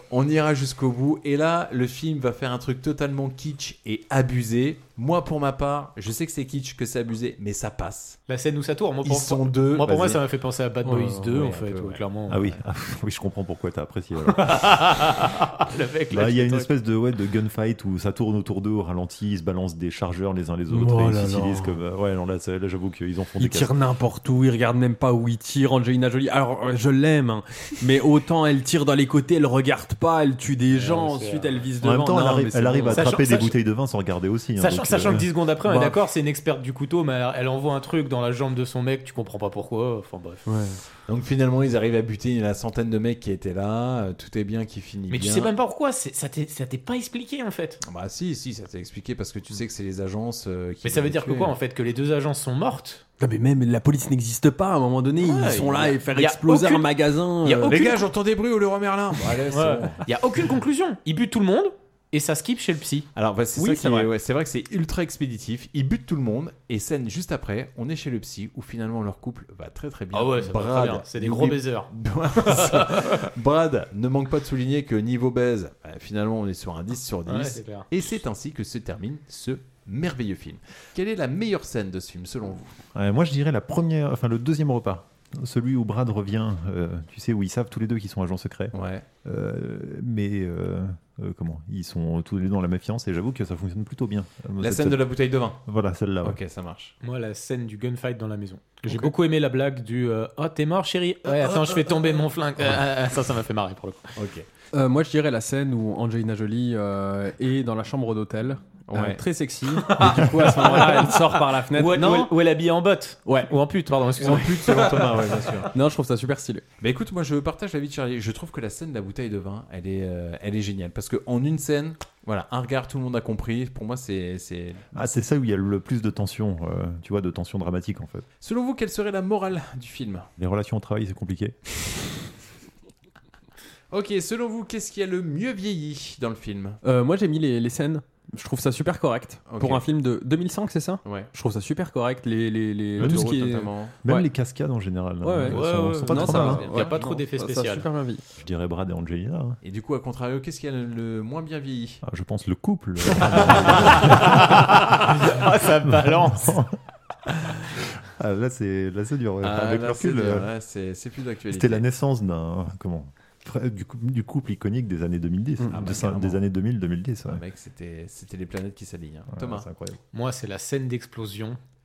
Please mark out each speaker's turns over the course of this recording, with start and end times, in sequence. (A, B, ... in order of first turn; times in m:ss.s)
0:00.1-0:08.2 A
0:08.3-0:12.6 B
0:09.0-0:10.2 A
0:10.8-0:11.3 C
0:11.3-0:12.0 A
0:12.3-0:14.7 D
0:14.3-0:16.7 B
0:16.1-0:23.7 D
0:20.7-0:21.8 C
0:23.4-0:33.1 C
0:30.7-0:31.6 B
0:31.8-0:35.9 D
0:32.9-0:33.6 B
0:34.6-0:40.5 B
0:40.4-0:40.8 C
0:41.1-0:45.5 A
0:45.1-0:47.8 B
0:47.8-0:51.5 A
0:50.8-0:53.0 B
0:53.2-0:57.8 C
0:55.2-0:56.9 B
0:55.6-0:55.9 A
0:57.4-0:58.1 B
0:57.7-1:00.0 A
0:59.5-1:03.1 B
1:03.1-1:22.8 A
1:03.6-1:04.1 C
1:10.1-1:11.9 B
1:12.4-1:13.0 B
1:17.3-1:17.9 B
1:22.9-1:35.1 D
1:28.7-1:29.1 A
1:34.6-1:35.6 A
1:35.6-1:36.4 D
1:36.2-1:36.9 A
1:37.0-1:44.1 B
1:41.4-1:41.7 A
1:44.2-1:44.4 A
1:44.7-1:52.3 C
1:48.9-1:49.2 A
1:49.7-1:55.3 B
1:53.3-1:53.6 C
1:54.2-1:55.7 A
1:54.2-1:55.0 C
1:55.7-1:56.6 C
1:56.8-2:04.8 A
2:04.9-2:08.3 D
2:08.4-2:10.3 A
2:10.4-2:11.6 D
2:13.9-2:16.8 A
2:16.8-2:24.3 C
2:19.5-2:19.9 A
2:23.0-2:23.9 A
2:23.0-2:23.4 D
2:24.0-2:26.7 D
2:25.2-2:28.2 C
2:25.5-2:27.9 B
2:26.4-2:27.0 A
2:28.4-2:29.6 D
2:29.6-2:32.0 A
2:32.0-2:36.8 D
2:33.6-2:36.6 B
2:38.1-2:40.5 D
2:39.4-2:41.8 A
2:41.5-2:47.4 D
2:45.6-2:45.9 C
2:45.7-2:46.4 A
2:47.3-2:49.7 A
2:49.3-2:50.0 D
2:50.1-2:51.6 B